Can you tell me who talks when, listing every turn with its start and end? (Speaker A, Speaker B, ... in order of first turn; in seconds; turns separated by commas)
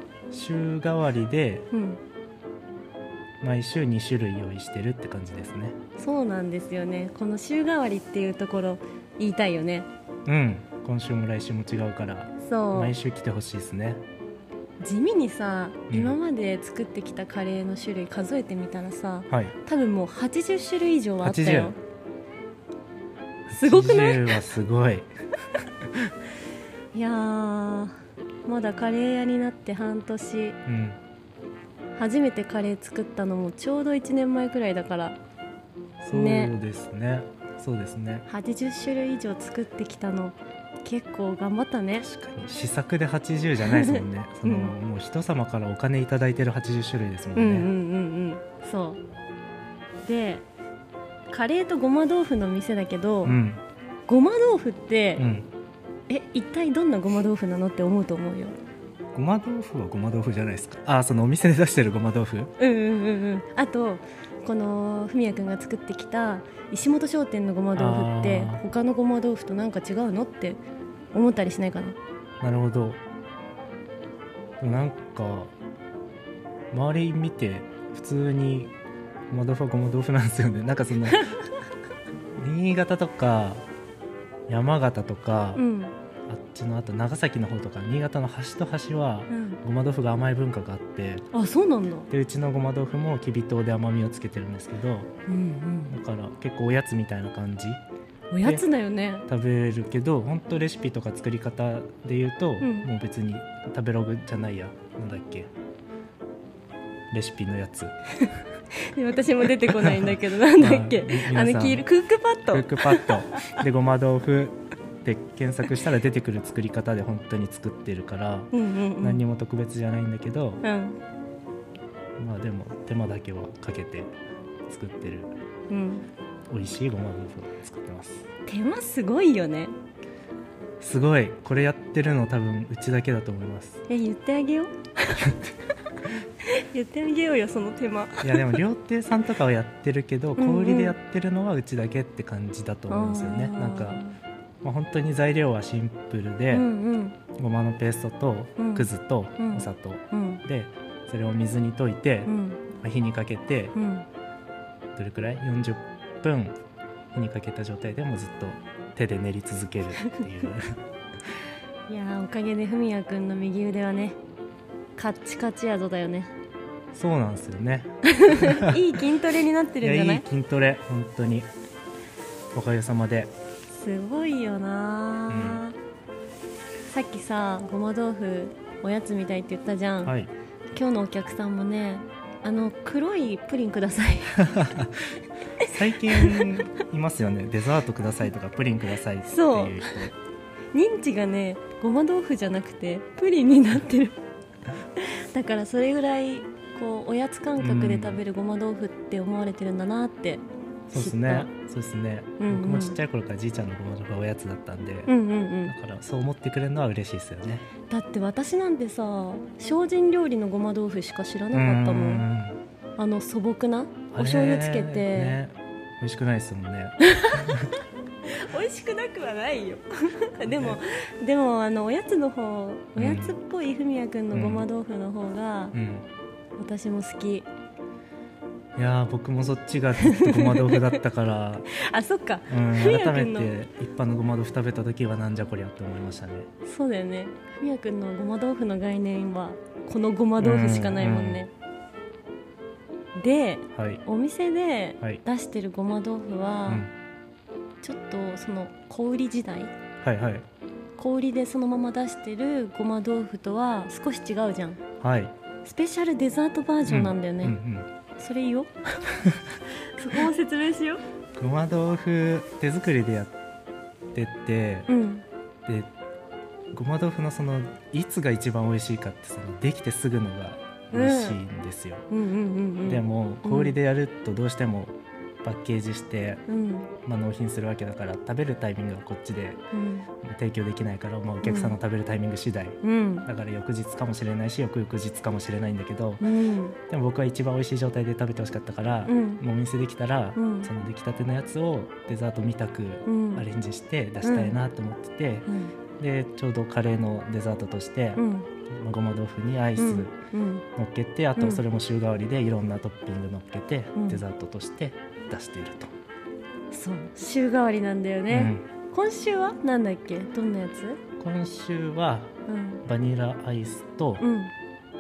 Speaker A: 0.3-1.7, Speaker B: 1.7-2.0, Speaker A: 3.4-5.8, Speaker B: 6.0-9.9, Speaker A: 10.2-14.0, Speaker B: 12.4-12.9, Speaker B: 14.8-21.8, Speaker A: 15.9-16.2, Speaker A: 19.3-19.5, Speaker A: 21.2-21.8, Speaker A: 23.5-25.1, Speaker B: 23.5-24.4, Speaker B: 26.9-27.9, Speaker B: 28.4-30.6, Speaker A: 30.6-31.0, Speaker B: 31.9-35.2, Speaker A: 36.0-38.2, Speaker B: 36.1-36.5, Speaker B: 38.3-42.1, Speaker A: 42.0-47.7, Speaker B: 43.6-44.7, Speaker B: 47.3-49.0, Speaker B: 50.0-50.4, Speaker B: 51.3-53.4, Speaker A: 53.2-53.6, Speaker B: 54.1-55.2, Speaker A: 55.2-55.5, Speaker B: 56.1-58.5, Speaker A: 59.1-62.5, Speaker B: 62.6-70.6, Speaker A: 67.7-68.6, Speaker B: 71.1-72.0, Speaker A: 72.4-73.0, Speaker A: 74.6-75.5, Speaker A: 76.7-78.7, Speaker A: 79.3-81.3, Speaker A: 82.4-83.6, Speaker A: 84.5-85.6, Speaker B: 85.5-85.9, Speaker A: 86.3-91.2, Speaker B: 89.3-89.6, Speaker B: 91.3-92.1, Speaker A: 92.1-95.1, Speaker B: 95.3-95.9, Speaker A: 95.9-97.8, Speaker B: 98.3-99.2, Speaker A: 99.3-105.5, Speaker B: 102.6-102.9, Speaker A: 107.1-107.9, Speaker B: 108.9-113.6, Speaker A: 109.8-111.8, Speaker A: 112.5-120.6, Speaker B: 118.5-119.2, Speaker B: 120.6-121.0, Speaker A: 122.2-124.1, Speaker A: 124.7-125.3, Speaker B: 125.7-126.0, Speaker A: 126.5-128.2, Speaker B: 128.4-129.7, Speaker A: 130.8-133.8, Speaker B: 133.9-135.3, Speaker B: 136.4-138.6, Speaker A: 138.2-144.0, Speaker B: 140.4-140.9, Speaker B: 142.9-144.2, Speaker A: 144.6-146.7, Speaker B: 146.5-147.2, Speaker A: 147.3-153.7, Speaker B: 148.6-150.4, Speaker B: 152.3-152.6, Speaker B: 153.7-154.1, Speaker A: 154.9-156.6, Speaker A: 157.1-160.8, Speaker B: 161.9-164.2, Speaker B: 165.0-166.3, Speaker A: 166.9-168.8, Speaker B: 168.1-170.2, Speaker A: 169.8-171.5, Speaker A: 172.5-173.3, Speaker B: 173.7-175.7, Speaker A: 175.3-175.6, Speaker B: 176.9-180.1, Speaker A: 180.0-180.3, Speaker B: 180.7-184.6, Speaker A: 184.4-185.1, Speaker B: 185.6-186.5, Speaker A: 185.6-190.1, Speaker B: 189.2-190.1, Speaker B: 190.7-194.2, Speaker B: 195.0-200.4, Speaker A: 197.6-198.2, Speaker A: 200.9-205.1, Speaker B: 200.9-201.5, Speaker B: 202.4-203.0, Speaker B: 205.1-205.7, Speaker A: 205.6-207.7, Speaker B: 207.9-212.2, Speaker A: 211.5-212.6, Speaker B: 213.0-215.4, Speaker A: 214.1-217.6, Speaker B: 217.0-225.7, Speaker A: 220.5-220.8, Speaker A: 223.0-223.4, Speaker A: 224.3-224.7, Speaker A: 225.7-226.1, Speaker B: 226.6-227.5, Speaker A: 228.8-231.7, Speaker B: 230.0-231.0, Speaker B: 231.7-233.5, Speaker A: 232.5-236.5, Speaker B: 236.6-241.5, Speaker A: 240.4-241.4, Speaker B: 243.2-246.9, Speaker A: 243.7-244.0, Speaker B: 247.8-249.7, Speaker A: 250.0-250.4, Speaker B: 251.0-254.8, Speaker A: 255.0-255.3, Speaker B: 255.6-257.6, Speaker A: 256.9-257.9, Speaker B: 258.2-261.0, Speaker A: 261.4-263.3, Speaker A: 264.1-264.9, Speaker B: 264.9-265.2, Speaker A: 266.7-272.0, Speaker B: 270.9-271.4, Speaker B: 272.1-273.8, Speaker A: 272.8-276.4, Speaker B: 276.5-276.9, Speaker A: 277.0-279.6, Speaker B: 279.7-280.1, Speaker A: 280.2-286.2, Speaker B: 281.4-281.8, Speaker B: 282.8-283.3, Speaker B: 286.2-286.8, Speaker A: 286.9-295.5, Speaker B: 289.1-289.4, Speaker B: 290.4-290.7, Speaker B: 293.1-293.4, Speaker B: 294.2-294.6, Speaker B: 295.5-295.7, Speaker A: 296.0-300.1, Speaker B: 298.2-298.5, Speaker B: 299.8-300.6, Speaker A: 300.8-305.9, Speaker B: 301.4-301.6, Speaker B: 303.9-304.2, Speaker B: 306.7-311.0, Speaker A: 308.3-308.6, Speaker A: 311.2-312.3, Speaker B: 312.5-312.8, Speaker A: 312.9-314.2, Speaker B: 314.2-314.5